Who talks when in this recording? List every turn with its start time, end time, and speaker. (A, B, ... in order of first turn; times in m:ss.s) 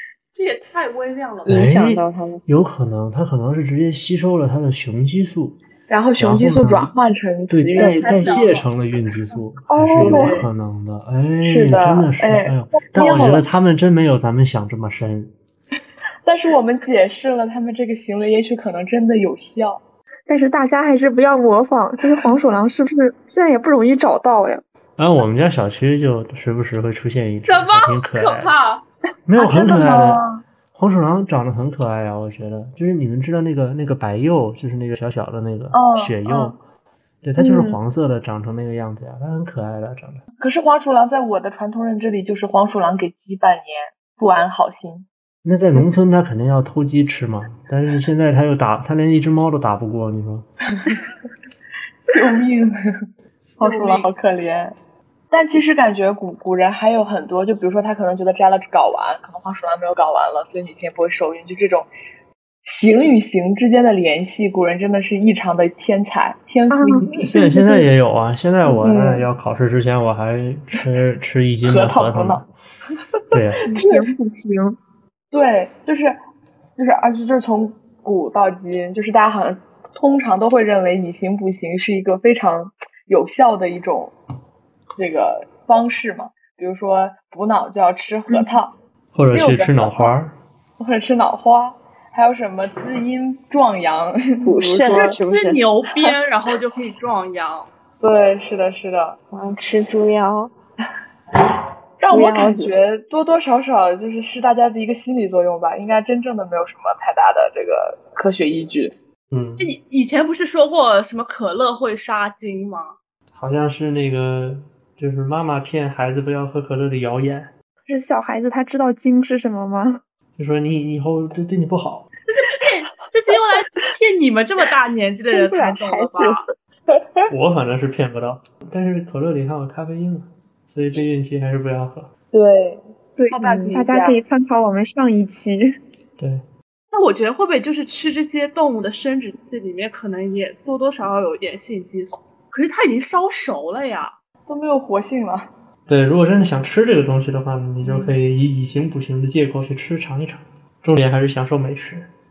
0:00.3-0:01.7 A
0:01.4-0:02.4 B
0:01.5-0:05.6 C
0:05.9-0:08.5 D
0:06.2-0:06.9 C
0:07.5-0:15.3 C
0:07.8-0:08.7 A
0:09.7-0:10.5 D
0:11.4-0:13.4 D
0:16.2-0:19.8 D
0:20.3-0:24.6 E
0:25.0-0:28.5 C
0:27.4-0:28.8 A
0:29.2-0:36.6 C
0:29.4-0:30.4 D
0:35.7-0:36.5 D
0:37.2-0:40.2 C
0:37.4-0:37.8 E
0:40.4-0:45.0 D
0:45.4-0:50.4 C
0:50.8-0:51.0 D
0:52.1-0:52.8 D
0:53.6-0:54.1 A
0:53.6-0:54.8 D
0:55.3-1:01.9 D
1:02.6-1:07.6 D
1:06.7-1:07.9 E
1:07.0-1:12.5 C
1:08.6-1:09.3 D
1:11.6-1:12.4 D
1:13.3-1:13.6 C
1:13.4-1:14.1 D
1:13.6-1:14.8 E
1:15.3-1:16.2 D
1:16.8-1:24.1 D
1:25.0-1:28.7 D
1:29.1-1:30.3 C
1:29.3-1:30.2 D
1:30.8-1:35.2 D
1:34.4-1:36.1 B
1:34.8-1:37.7 A
1:38.0-1:39.2 D
1:39.3-1:40.5 B
1:42.0-1:48.9 D
1:42.1-1:42.8 B
1:49.3-1:49.7 C
1:49.6-1:52.9 A
1:53.3-1:57.5 C
1:57.9-2:00.0 E
2:00.4-2:02.1 C
2:02.3-2:06.4 A
2:05.2-2:06.4 B
2:07.0-2:07.3 D
2:07.3-2:12.1 C
2:12.3-2:14.2 D
2:13.2-2:15.8 E
2:16.2-2:16.4 C
2:16.9-2:24.1 A
2:24.5-2:25.5 D
2:25.9-2:32.1 C
2:27.8-2:28.2 D